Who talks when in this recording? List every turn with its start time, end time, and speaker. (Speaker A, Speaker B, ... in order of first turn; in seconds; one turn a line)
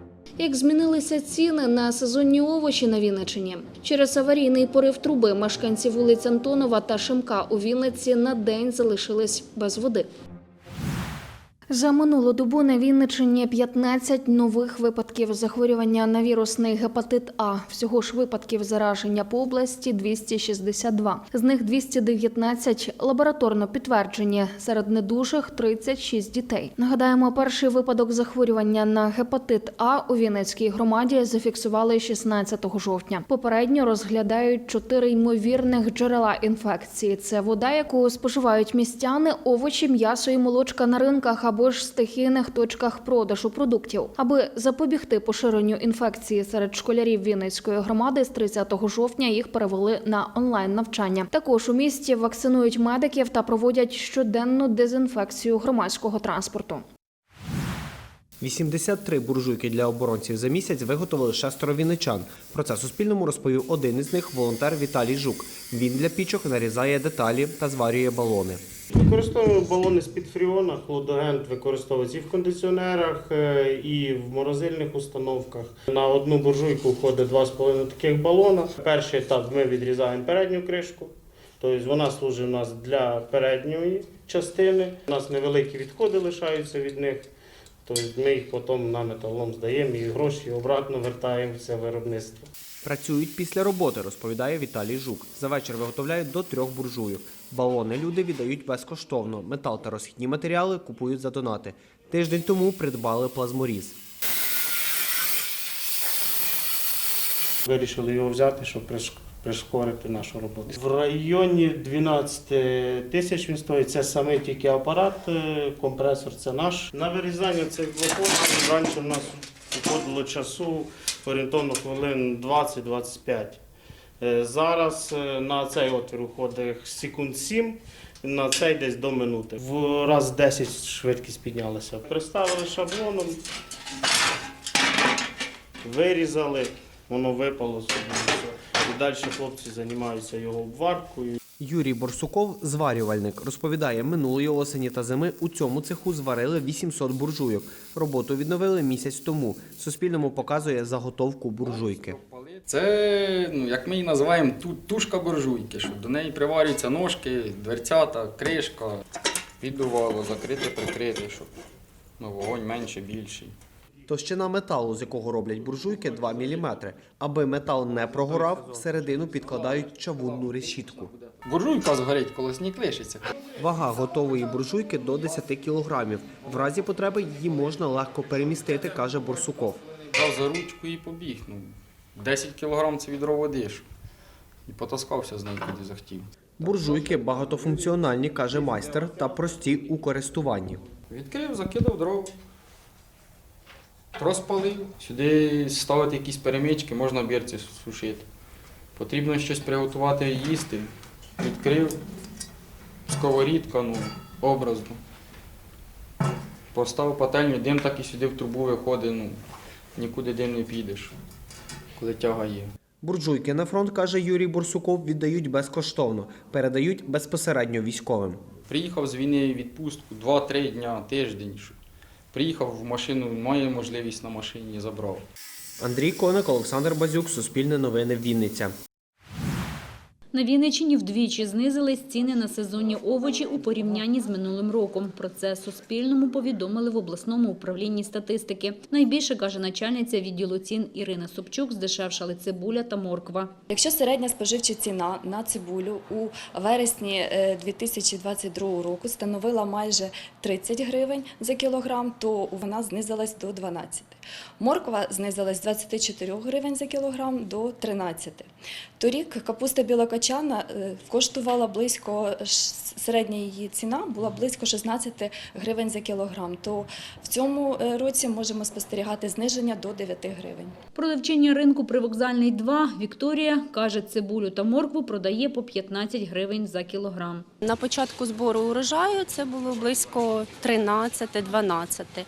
Speaker A: 0.4-10.1
Speaker A: 11.7-56.8
Speaker B: 58.4-68.6
Speaker C: 68.9-87.2
Speaker C: 87.9-92.5
Speaker B: 92.8-104.0
Speaker C: 107.7-123.6
Speaker C: 124.2-133.4
Speaker C: 135.8-141.4
Speaker B: 141.6-152.2
Speaker D: 151.7-159.0
Speaker D: 159.6-161.5
Speaker D: 162.2-163.5
Speaker B: 164.1-171.1
Speaker D: 171.4-173.3
Speaker B: 173.6-179.8
Speaker D: 180.1-183.9
Speaker D: 184.7-186.3
Speaker B: 186.6-190.8
Speaker D: 191.1-192.3
Speaker D: 194.2-198.3
Speaker D: 199.0-202.0
Speaker D: 203.1-205.0
Speaker D: 206.7-209.4
Speaker D: 210.0-211.1
Speaker D: 212.0-212.7
Speaker B: 213.0-218.4
Speaker D: 218.7-221.8
Speaker D: 222.3-225.3
Speaker B: 225.8-228.7
Speaker E: 230.3-243.5
Speaker F: 243.7-258.5
Speaker F: 259.0-270.8
Speaker E: 270.9-277.5
Speaker G: 277.9-278.8
Speaker G: 279.6-279.8
Speaker G: 280.4-281.2